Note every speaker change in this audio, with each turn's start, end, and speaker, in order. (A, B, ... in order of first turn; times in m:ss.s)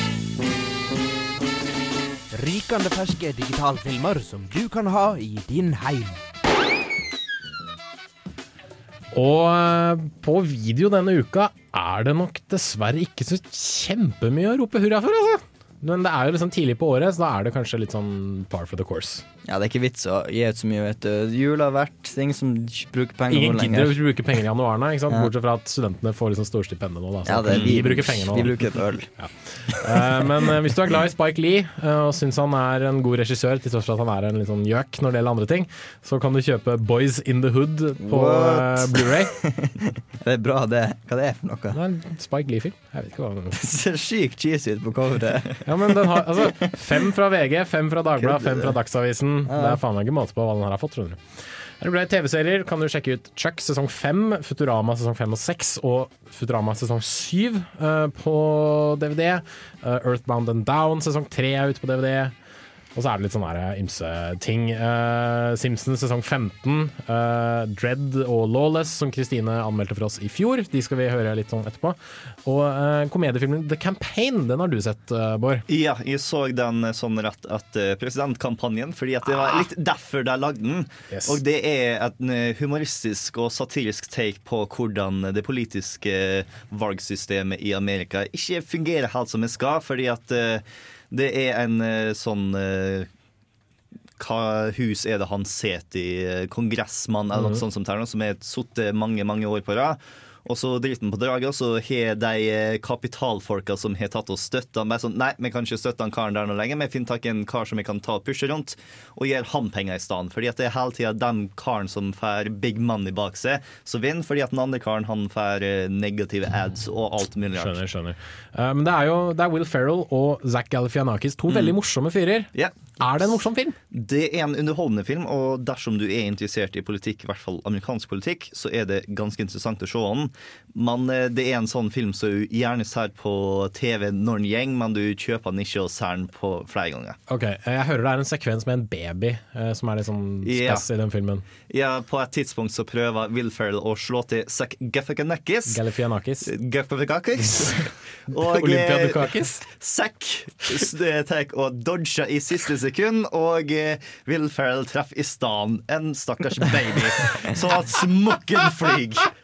0:02.3-0:06.2 A
0:09.1-0:19.2 B
0:19.4-0:24.0 C
0:23.3-0:39.3 B
0:27.3-0:29.1 C
0:38.0-0:41.8 C
0:41.7-0:43.6 B
0:43.5-0:46.7 C
0:45.6-0:51.2 B
0:48.2-0:48.8 C
0:49.5-0:49.8 C
0:51.8-1:02.3 B
1:03.0-1:15.6 B
1:15.7-1:33.1 D
1:21.1-1:21.4 B
1:34.2-1:57.8 D
1:37.4-1:37.6 B
1:57.6-2:03.8 B
2:01.5-2:01.8 D
2:03.9-2:17.2 D
2:17.3-2:21.5 B
2:20.4-2:20.9 D
2:21.7-2:25.8 D
2:25.7-2:26.5 B
2:26.5-2:39.3 D
2:28.3-2:29.6 B